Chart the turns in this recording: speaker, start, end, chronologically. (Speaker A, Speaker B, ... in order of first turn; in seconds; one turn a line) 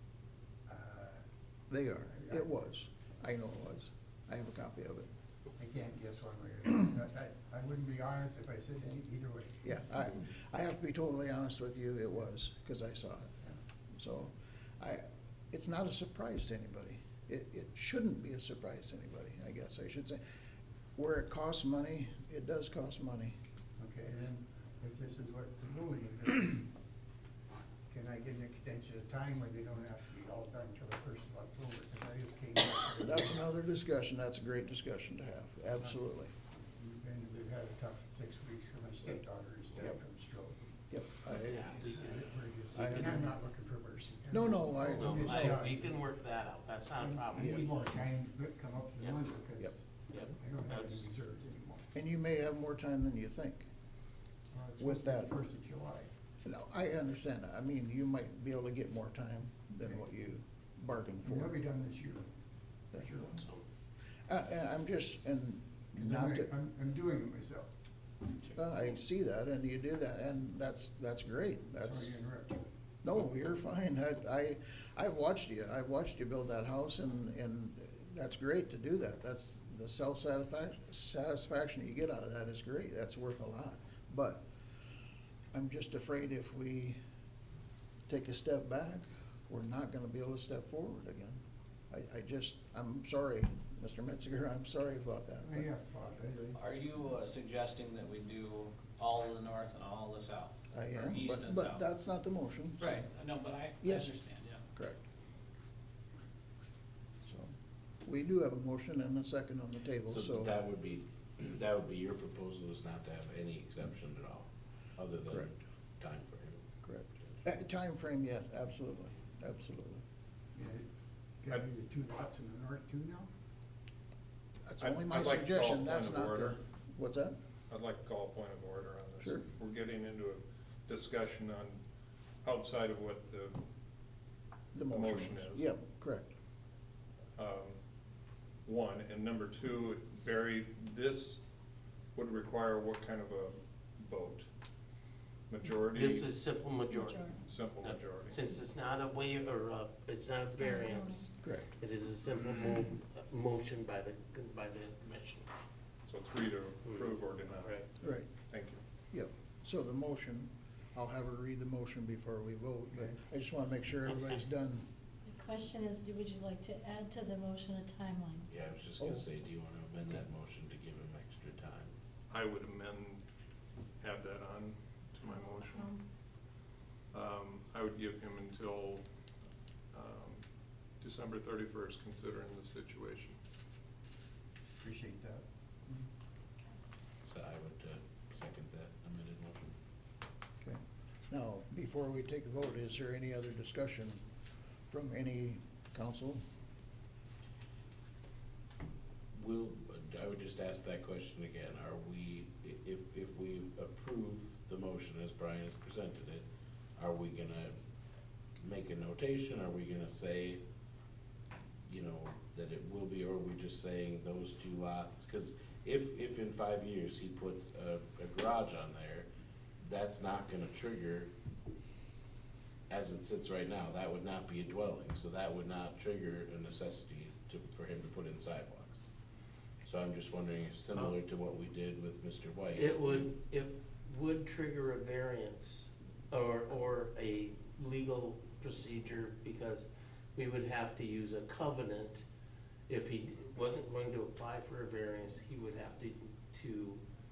Speaker A: 0.7-1.2
Speaker B: 1.7-5.1
Speaker A: 2.2-2.5
Speaker A: 5.6-9.8
Speaker B: 9.6-13.3
Speaker B: 13.9-20.2
Speaker B: 21.0-23.4
Speaker A: 23.8-26.7
Speaker A: 27.9-33.5
Speaker B: 33.0-36.3
Speaker A: 36.6-40.7
Speaker B: 40.9-41.9
Speaker C: 41.4-41.8
Speaker A: 41.5-46.0
Speaker B: 42.8-43.3
Speaker C: 42.8-43.1
Speaker B: 44.3-45.6
Speaker C: 44.8-47.7
Speaker A: 47.0-51.9
Speaker B: 47.4-47.6
Speaker C: 50.1-51.1
Speaker B: 51.9-53.7
Speaker A: 54.5-56.1
Speaker B: 54.8-55.3
Speaker B: 56.4-61.5
Speaker A: 61.2-62.3
Speaker A: 62.9-63.4
Speaker C: 63.4-63.6
Speaker B: 64.3-66.5
Speaker A: 65.9-67.7
Speaker B: 68.5-72.2
Speaker A: 71.8-72.7
Speaker B: 73.0-84.5
Speaker B: 85.5-87.0
Speaker B: 88.1-95.7
Speaker A: 95.4-96.7
Speaker D: 96.5-101.9
Speaker B: 100.7-103.0
Speaker D: 102.8-104.7
Speaker B: 103.8-104.1
Speaker B: 104.7-105.0
Speaker B: 107.3-107.5
Speaker B: 108.0-110.6
Speaker E: 110.1-116.6
Speaker B: 116.8-120.0
Speaker A: 120.5-120.9
Speaker A: 121.4-123.3
Speaker B: 124.7-127.4
Speaker F: 124.8-126.6
Speaker F: 127.7-131.8
Speaker F: 132.4-133.6
Speaker B: 134.7-136.3
Speaker F: 134.9-135.7
Speaker F: 137.4-137.8
Speaker F: 138.7-141.4
Speaker F: 142.1-144.5
Speaker F: 145.5-146.3
Speaker C: 145.9-155.5
Speaker G: 146.9-147.4
Speaker F: 147.4-148.4
Speaker G: 150.6-151.3
Speaker B: 151.4-151.7
Speaker F: 156.1-157.9
Speaker C: 156.8-157.8
Speaker B: 158.0-158.3
Speaker F: 158.5-158.8
Speaker B: 159.1-164.9
Speaker C: 164.1-164.4
Speaker G: 165.2-168.5
Speaker E: 168.5-171.9
Speaker F: 172.3-173.2
Speaker F: 174.0-176.0
Speaker G: 175.3-176.0
Speaker F: 177.1-179.1
Speaker F: 179.9-180.4
Speaker F: 181.0-183.4
Speaker A: 184.8-185.4
Speaker E: 187.2-189.8
Speaker B: 190.6-194.2
Speaker B: 194.9-196.4
Speaker E: 199.3-206.4
Speaker E: 207.0-207.8
Speaker E: 208.6-210.6
Speaker E: 211.9-219.3
Speaker E: 219.8-221.3
Speaker E: 222.9-229.1
Speaker E: 229.8-233.3
Speaker C: 232.8-242.2
Speaker C: 242.9-247.0